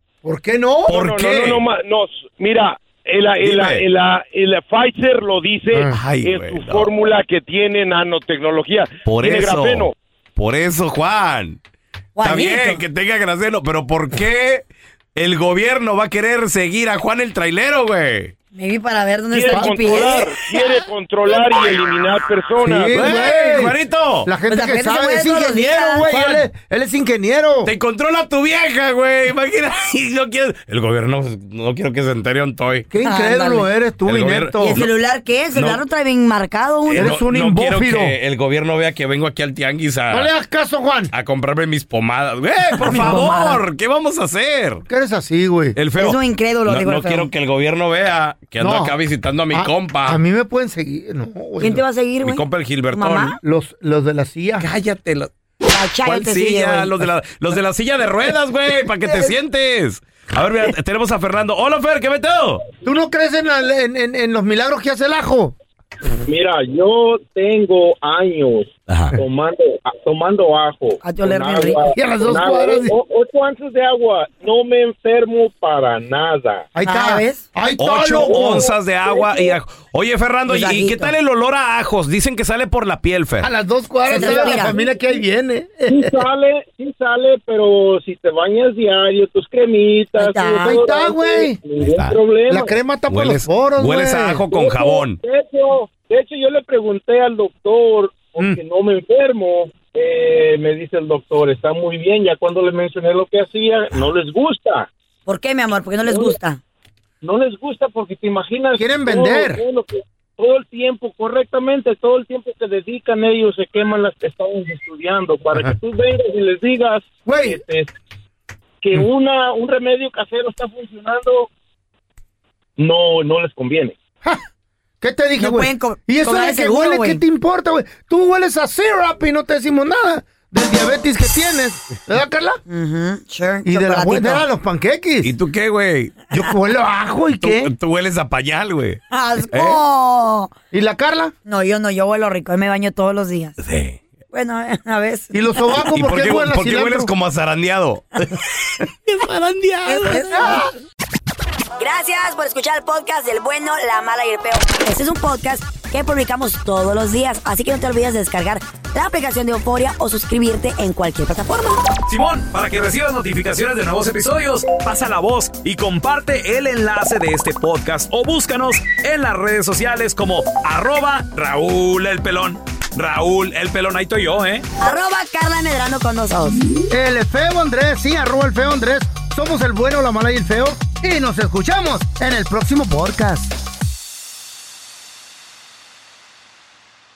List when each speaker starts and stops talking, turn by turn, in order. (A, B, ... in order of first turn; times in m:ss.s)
0:00.2-0:01.0 A
0:00.9-0:01.7 B
0:00.9-0:09.9 C
0:03.4-0:03.9 B
0:05.7-0:06.0 A
0:05.9-0:06.9 B
0:09.0-0:11.6 B
0:12.2-0:12.8 D
0:12.2-0:14.6 B
0:15.2-0:18.3 B
0:18.5-0:21.5 D
0:19.3-0:22.9 C
0:22.6-0:27.7 A
0:22.9-0:24.3 B
0:24.5-0:26.4 D
0:27.6-0:32.9 B
0:32.9-0:34.8 A
0:33.0-0:33.7 D
0:34.1-0:34.9 B
0:34.6-0:37.1 D
0:35.5-0:35.8 B
0:36.9-0:40.3 B
0:36.9-0:38.2 A
0:40.1-0:41.1 A
0:41.1-0:44.8 B
0:42.8-0:43.6 D
0:42.8-0:43.3 A
0:44.9-0:45.8 A
0:45.8-0:50.2 B
0:46.0-0:47.3 D
0:48.6-0:48.9 A
0:49.5-0:51.8 A
0:51.6-0:53.4 D
0:52.2-0:53.4 B
0:53.4-0:54.6 A
0:54.6-0:55.3 B
0:55.7-0:57.0 D
0:56.0-1:02.6 B
1:02.8-1:05.6 A
1:06.3-1:16.7 E
1:08.9-1:09.2 B
1:11.0-1:11.9 D
1:11.9-1:13.0 A
1:16.7-1:18.7 A
1:16.8-1:17.4 D
1:17.8-1:23.5 B
1:19.1-1:19.6 E
1:20.5-1:21.1 D
1:23.4-1:26.2 A
1:24.1-1:24.7 D
1:24.3-1:25.2 E
1:25.9-1:32.8 E
1:30.2-1:30.8 D
1:30.6-1:31.6 A
1:31.8-1:32.2 B
1:32.5-1:34.4 A
1:33.1-1:35.2 B
1:34.5-1:44.9 E
1:45.3-1:46.6 D
1:46.1-1:46.4 E
1:47.2-1:57.9 E
1:48.8-1:49.6 A
1:57.3-1:57.6 A
1:58.8-2:01.5 E
2:02.8-2:04.0 E
2:05.0-2:12.6 A
2:05.4-2:07.2 D
2:12.7-2:14.4 D
2:13.6-2:15.3 A
2:15.2-2:16.2 B
2:16.3-2:17.7 A
2:17.4-2:19.8 B
2:19.1-2:20.5 D
2:20.7-2:21.3 A
2:21.5-2:23.6 D
2:23.6-2:24.0 B
2:24.3-2:25.9 D
2:25.3-2:27.1 A
2:25.9-2:30.4 B
2:29.9-2:30.7 D
2:30.4-2:30.7 A
2:31.8-2:41.8 D
2:42.1-2:54.6 B
2:54.8-2:56.6 D
2:56.9-3:03.5 A